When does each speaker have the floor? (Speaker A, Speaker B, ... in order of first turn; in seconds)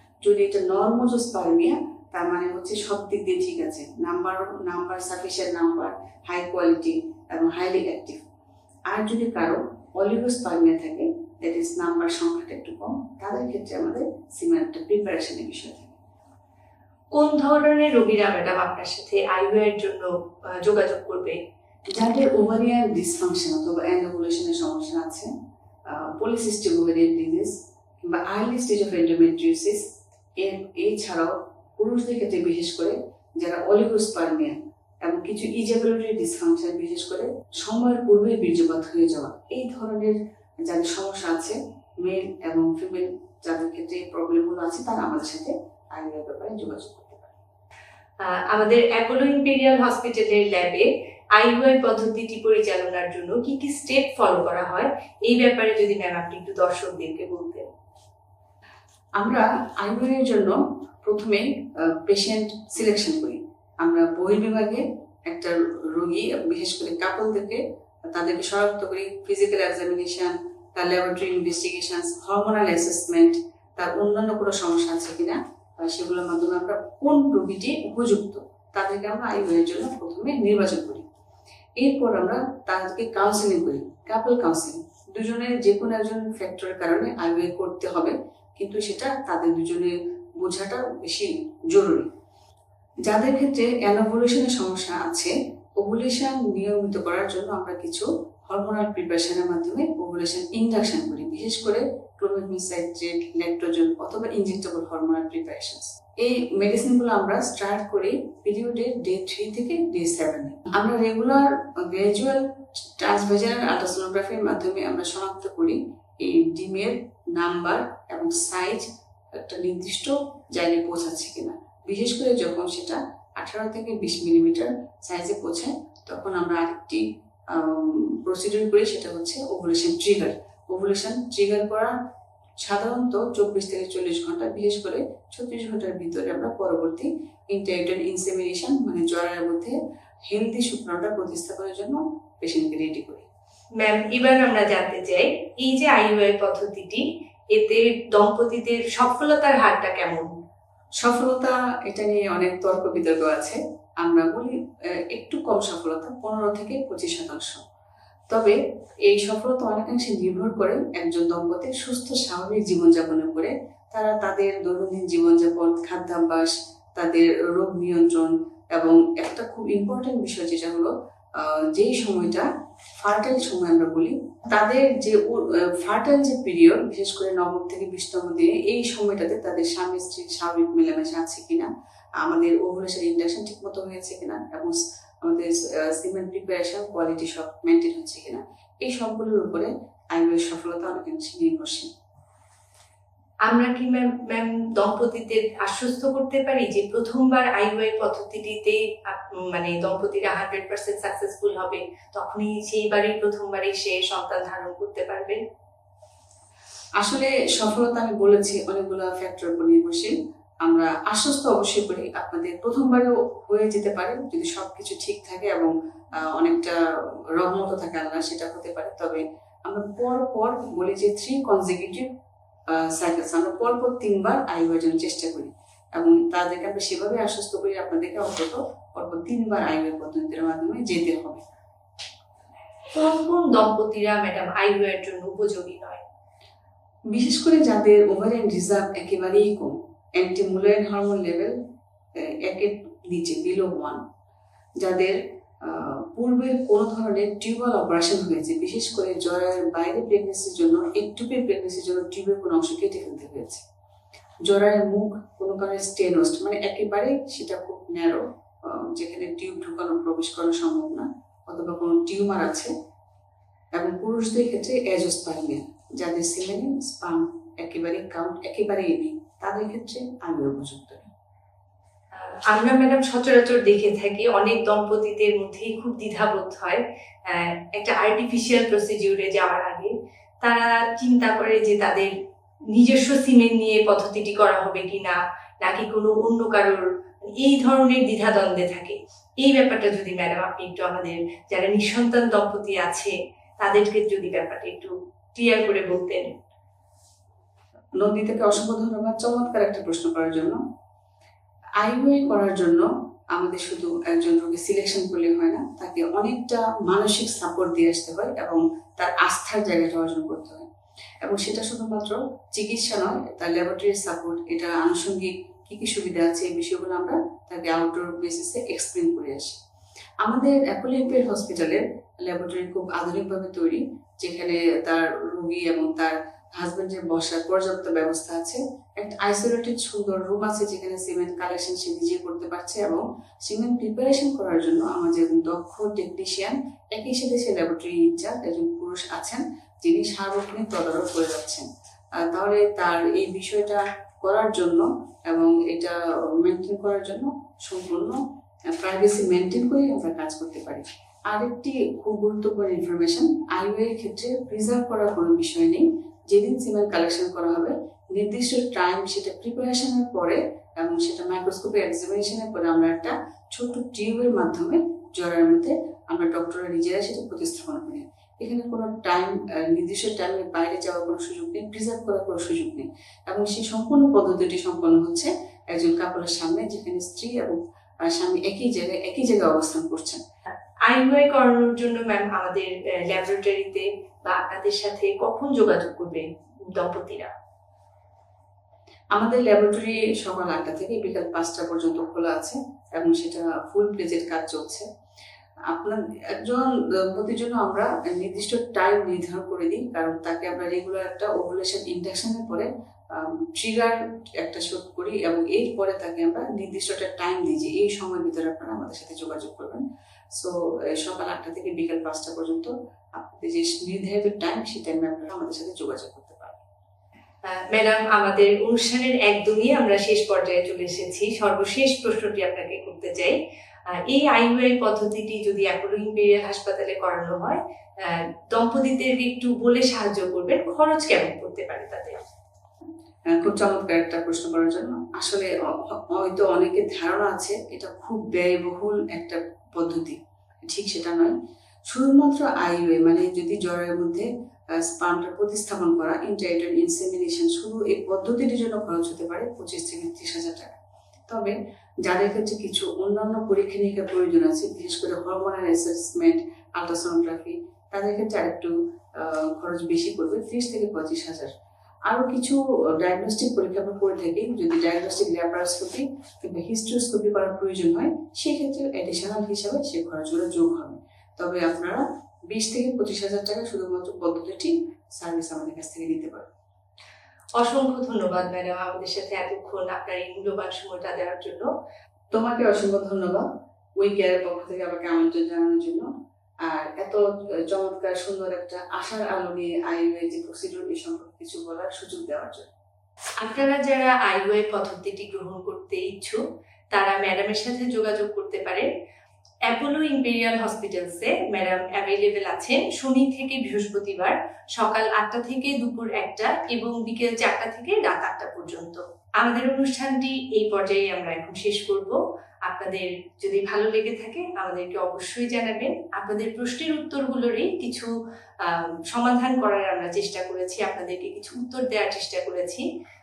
Speaker A: 0.2-8.2, 8.9-15.9, 21.9-25.3, 25.9-29.8, 30.4-47.3, 59.2-81.0, 81.8-92.1, 93.1-131.9, 132.6-143.3, 151.0-157.6, 158.3-191.9, 207.0-216.8, 217.4-222.1, 222.7-231.4, 237.1-241.5, 242.2-244.0, 244.8-253.6, 254.4-262.7, 263.8-271.1, 298.0-300.6, 301.8-310.7, 311.2-319.6, 320.2-348.2, 348.7-380.2, 389.1-394.9, 395.7-416.6, 433.3-441.3, 441.9-450.8, 451.3-461.5, 462.1-476.5, 482.3-483.5, 484.0-486.1, 486.6-492.7
Speaker B: 17.1-21.4, 48.2-57.6, 143.8-150.3, 193.5-205.4, 232.9-236.0, 272.1-282.1, 282.7-286.8, 287.4-296.3, 380.9-387.3, 417.4-423.4, 424.1-432.1, 477.6-481.7, 493.4-496.4, 496.9-498.9, 499.7-518.1, 518.6-522.8